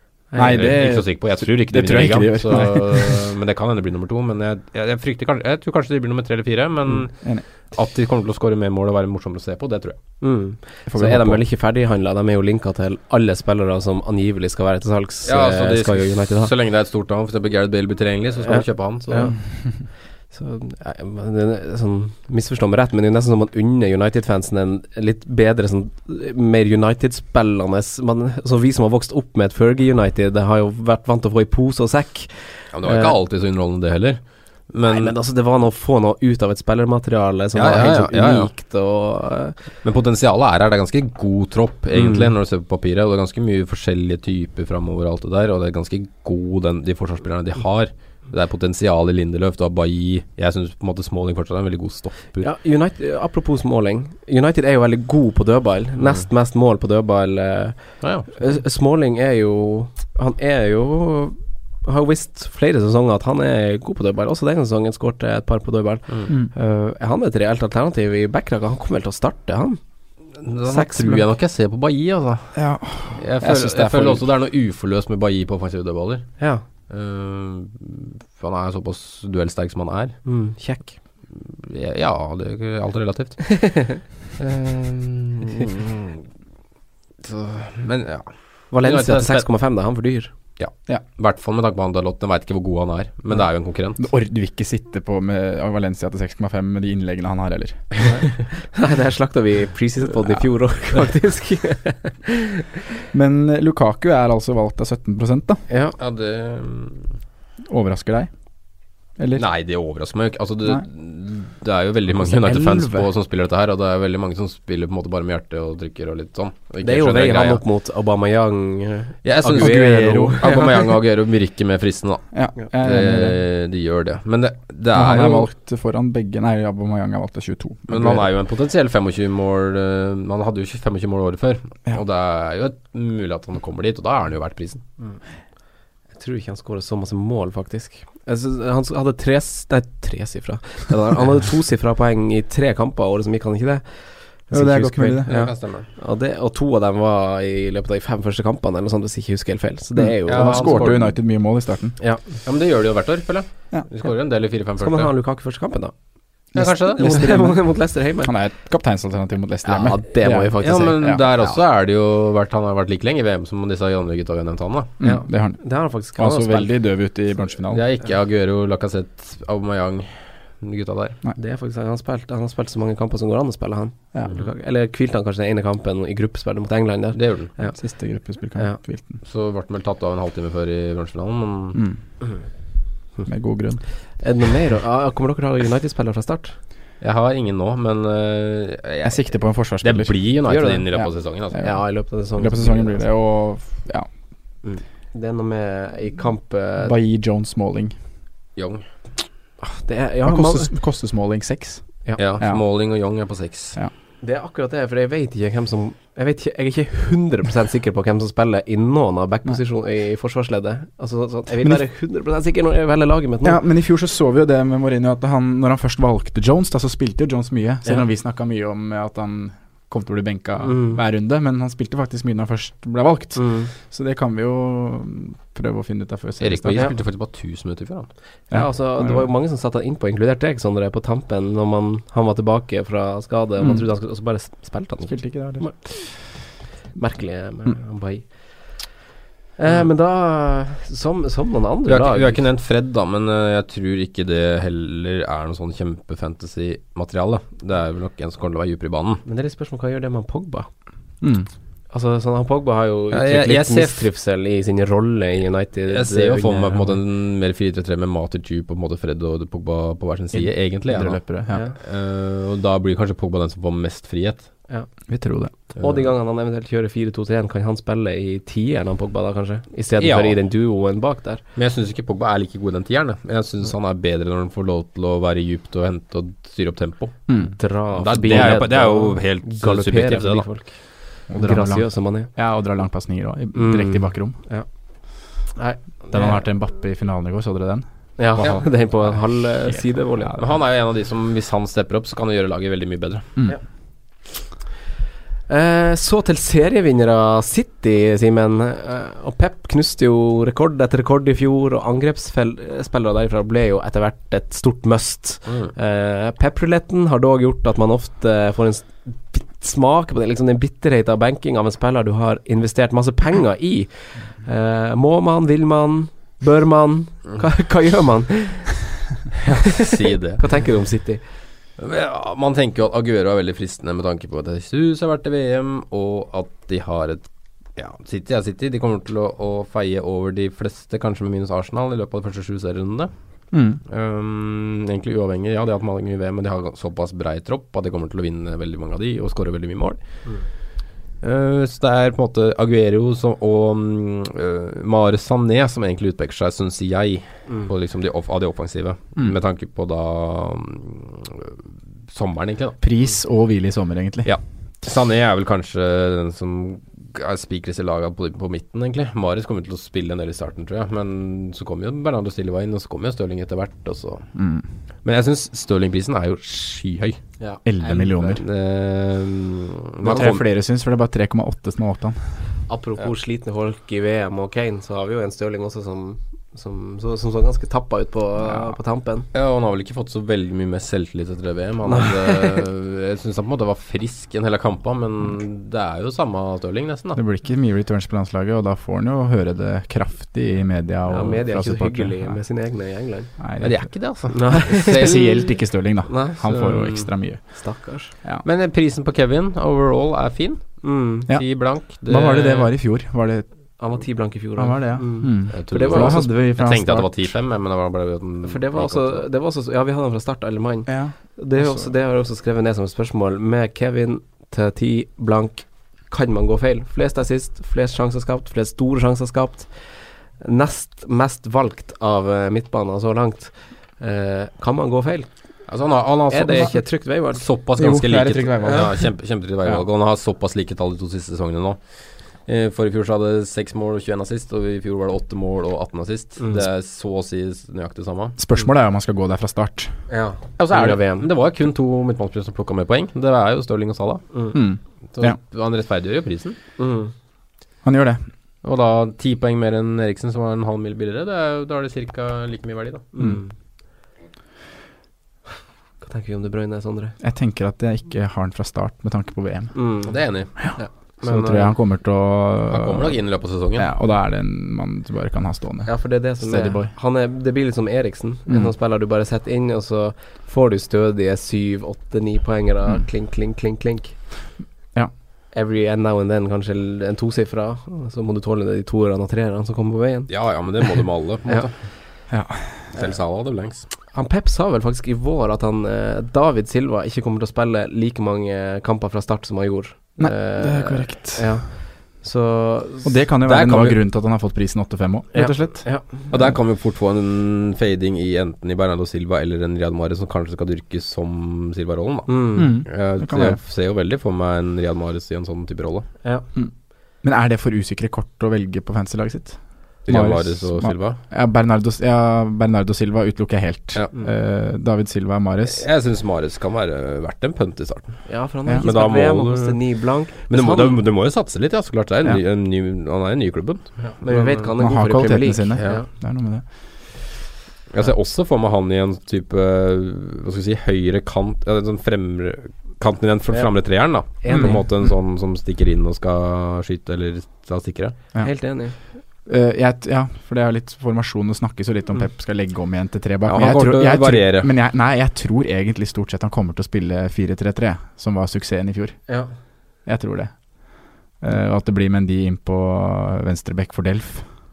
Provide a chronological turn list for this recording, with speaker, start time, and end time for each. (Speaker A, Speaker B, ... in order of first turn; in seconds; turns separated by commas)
Speaker A: 0.3-3.2, Speaker B: 0.3-0.7, Speaker C: 0.4-10.0, Speaker B: 10.2-16.5, Speaker A: 10.9-11.4, Speaker C: 15.2-19.3, Speaker B: 18.4-33.1, Speaker C: 32.7-35.1, Speaker B: 34.8-39.6, Speaker C: 37.5-38.5, Speaker C: 39.8-52.5, Speaker B: 41.9-42.3, Speaker B: 52.4-69.8, Speaker C: 58.0-58.4, Speaker A: 66.3-66.5, Speaker C: 70.4-72.6, Speaker B: 70.7-71.2, Speaker A: 72.5-74.2, Speaker C: 73.1-80.2, Speaker B: 76.4-76.6, Speaker B: 80.2-81.0, Speaker C: 81.3-83.8, Speaker B: 83.6-84.0, Speaker C: 84.4-86.1, Speaker C: 87.2-89.5, Speaker B: 88.7-90.3, Speaker C: 90.6-94.0, Speaker A: 94.0-98.2, Speaker B: 98.7-102.6, Speaker A: 103.1-105.6, Speaker B: 105.7-106.0, Speaker C: 106.0-107.2, Speaker A: 107.7-108.3, Speaker A: 109.2-109.5, Speaker C: 109.3-117.6, Speaker A: 112.2-113.1, Speaker B: 116.8-120.3, Speaker C: 119.2-125.5, Speaker A: 119.4-120.9, Speaker A: 122.3-123.4, Speaker A: 124.9-128.2, Speaker C: 127.9-134.8, Speaker B: 136.1-151.0, Speaker A: 144.5-145.3, Speaker C: 145.3-145.9, Speaker A: 150.0-152.0, Speaker C: 150.2-151.1, Speaker B: 152.0-152.3, Speaker C: 152.4-155.1, Speaker B: 154.8-155.9, Speaker C: 156.5-157.2, Speaker A: 156.5-157.6, Speaker B: 156.6-158.3, Speaker A: 158.2-161.2, Speaker B: 159.6-161.0, Speaker C: 160.6-164.9, Speaker A: 165.0-167.8, Speaker B: 165.0-166.7, Speaker C: 167.7-171.2, Speaker B: 171.3-177.8, Speaker C: 177.1-177.5, Speaker A: 177.7-179.2, Speaker C: 179.2-181.8, Speaker A: 181.7-182.0, Speaker A: 183.2-183.8, Speaker B: 184.2-186.6, Speaker C: 187.0-191.6, Speaker A: 189.0-194.1, Speaker B: 190.5-193.0, Speaker B: 194.6-196.9, Speaker A: 196.8-197.9, Speaker C: 198.6-198.8, Speaker B: 199.6-200.7, Speaker A: 200.2-202.6, Speaker C: 202.2-203.8, Speaker B: 204.2-213.6, Speaker A: 213.4-226.9, Speaker B: 220.6-221.0, Speaker B: 223.3-223.7, Speaker C: 226.4-228.1, Speaker A: 228.5-229.3, Speaker B: 228.5-236.3, Speaker A: 235.1-235.9, Speaker B: 236.9-238.9, Speaker B: 239.6-242.4, Speaker C: 241.8-249.2, Speaker B: 249.2-250.7, Speaker A: 251.2-251.5, Speaker B: 251.9-257.0, Speaker C: 253.1-254.1, Speaker C: 255.9-264.5, Speaker A: 260.3-261.6, Speaker B: 261.5-261.8, Speaker A: 265.1-265.5, Speaker B: 265.7-271.4, Speaker C: 265.8-266.1, Speaker C: 270.0-270.4, Speaker C: 271.5-277.3, Speaker A: 277.3-277.6, Speaker B: 277.5-282.3, Speaker C: 277.9-280.5, Speaker A: 281.3-284.4, Speaker B: 283.5-284.6, Speaker B: 285.2-286.4, Speaker A: 286.1-290.4, Speaker B: 288.2-290.4, Speaker C: 290.4-293.3, Speaker B: 295.5-318.8, Speaker C: 305.4-305.7, Speaker C: 319.6-320.4, Speaker B: 320.4-321.2, Speaker C: 321.8-333.1, Speaker A: 333.5-333.8, Speaker C: 333.9-340.2, Speaker C: 341.2-351.6, Speaker C: 352.1-352.8, Speaker A: 352.8-354.3, Speaker C: 354.2-364.3, Speaker A: 364.4-364.7, Speaker C: 365.0-367.2, Speaker B: 367.4-368.4, Speaker A: 367.6-368.4, Speaker C: 368.4-370.4, Speaker A: 370.0-372.2, Speaker B: 370.1-370.3, Speaker B: 372.7-379.3, Speaker C: 379.3-387.2, Speaker B: 381.9-382.6, Speaker A: 387.1-392.4, Speaker B: 391.1-393.3, Speaker A: 393.4-398.4, Speaker C: 393.6-395.5, Speaker B: 394.3-395.1, Speaker B: 396.1-398.1, Speaker C: 396.5-396.9, Speaker C: 398.4-402.7, Speaker B: 400.8-401.3, Speaker A: 401.3-403.7, Speaker B: 403.8-406.4, Speaker A: 404.6-407.3, Speaker C: 405.5-409.2, Speaker B: 408.4-425.7, Speaker A: 410.9-411.9, Speaker C: 425.7-438.4, Speaker B: 426.3-427.4, Speaker A: 427.8-429.8, Speaker A: 438.4-440.0, Speaker B: 440.1-441.3, Speaker C: 440.6-444.4, Speaker A: 444.5-445.4, Speaker C: 445.1-446.6, Speaker B: 446.8-447.1, Speaker A: 447.8-448.2, Speaker C: 448.6-453.0, Speaker B: 453.1-453.5, Speaker B: 456.0-457.1, Speaker A: 457.2-459.8, Speaker B: 459.7-460.9, Speaker C: 460.1-461.7, Speaker A: 460.6-463.2, Speaker C: 462.7-463.9, Speaker A: 463.7-466.9, Speaker B: 465.8-474.2, Speaker B: 475.5-480.7, Speaker C: 480.3-481.8, Speaker A: 482.3-482.9, Speaker C: 482.9-483.9, Speaker B: 484.1-493.1, Speaker A: 490.2-491.6, Speaker A: 493.0-495.9, Speaker C: 493.4-494.0, Speaker B: 495.3-496.2, Speaker C: 496.3-506.1, Speaker B: 502.3-502.7, Speaker A: 502.6-503.6, Speaker A: 506.5-515.8, Speaker C: 510.1-511.2, Speaker C: 515.7-518.3, Speaker B: 518.2-521.0, Speaker C: 518.8-524.7, Speaker B: 524.2-526.1, Speaker A: 524.8-526.6, Speaker C: 525.8-526.0, Speaker C: 527.9-538.1, Speaker B: 533.5-534.9, Speaker A: 534.5-534.8, Speaker A: 538.3-538.6, Speaker B: 538.4-539.0, Speaker A: 539.5-549.3, Speaker C: 543.5-544.7, Speaker B: 549.3-549.5, Speaker A: 550.0-554.5